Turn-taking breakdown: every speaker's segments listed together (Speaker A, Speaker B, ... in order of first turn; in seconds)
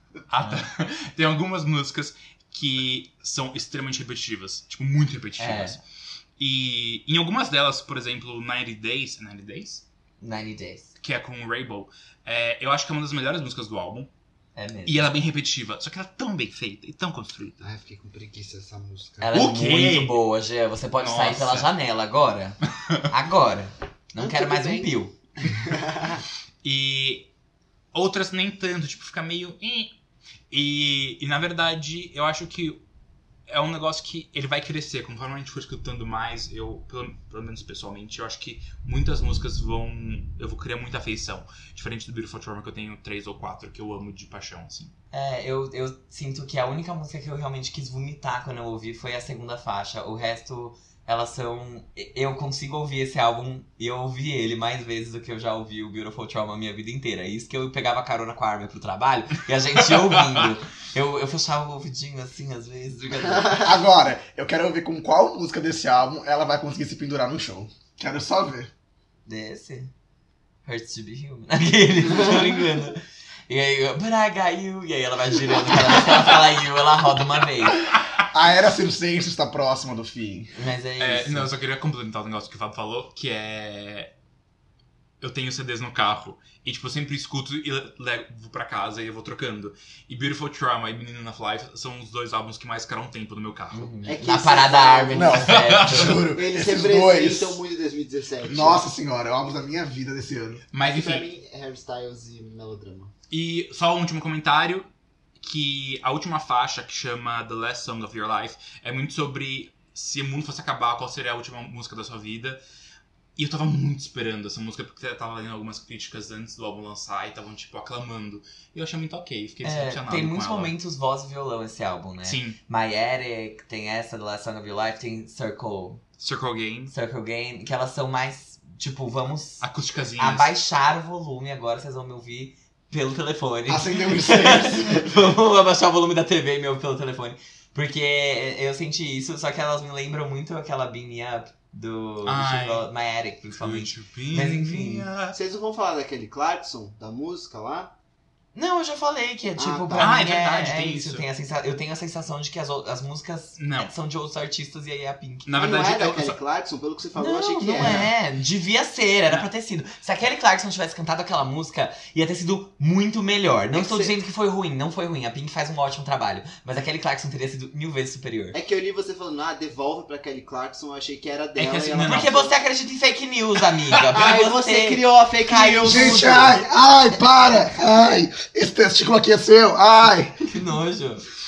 Speaker A: 0.3-5.8, 6.4-9.8, 11.0-14.1, 14.8-17.6, 19.3-20.1, 21.0-21.7, 26.6-27.3, 27.9-29.9, 30.5-32.8, 33.5-44.9, 60.1-60.4, 81.0-84.1, 85.2-93.9, 95.4-96.3, 100.7-101.3, 103.3-104.9, 105.4-112.6, 113.3-120.7, 122.2-122.6, 126.2-126.9, 129.6-130.5, 142.2-142.8, 143.6-145.3, 150.0-151.2, 153.6-153.9, 155.4-156.4, 157.8-158.1, 171.6-172.4
Speaker B: 5.4-5.8, 10.2-10.9, 14.6-15.1, 19.2-25.1, 45.1-63.7, 69.2-69.9, 70.6-77.8, 80.5-81.5, 93.7-96.3, 119.6-126.0, 126.9-129.6, 130.2-145.1, 148.5-155.5, 157.1-168.6, 172.0-176.3, 180.5-181.2
Speaker C: 17.6-19.3, 24.2-24.9, 25.5-26.2, 94.0-95.4, 96.3-98.8, 100.8-103.1, 145.3-147.9, 149.6-150.1, 155.6-158.1, 163.7-164.1, 168.5-172.5, 174.1-176.6
Speaker D: 63.5-68.7, 78.2-80.5, 95.1-97.6, 98.4-100.6, 133.7-135.2, 175.8-180.5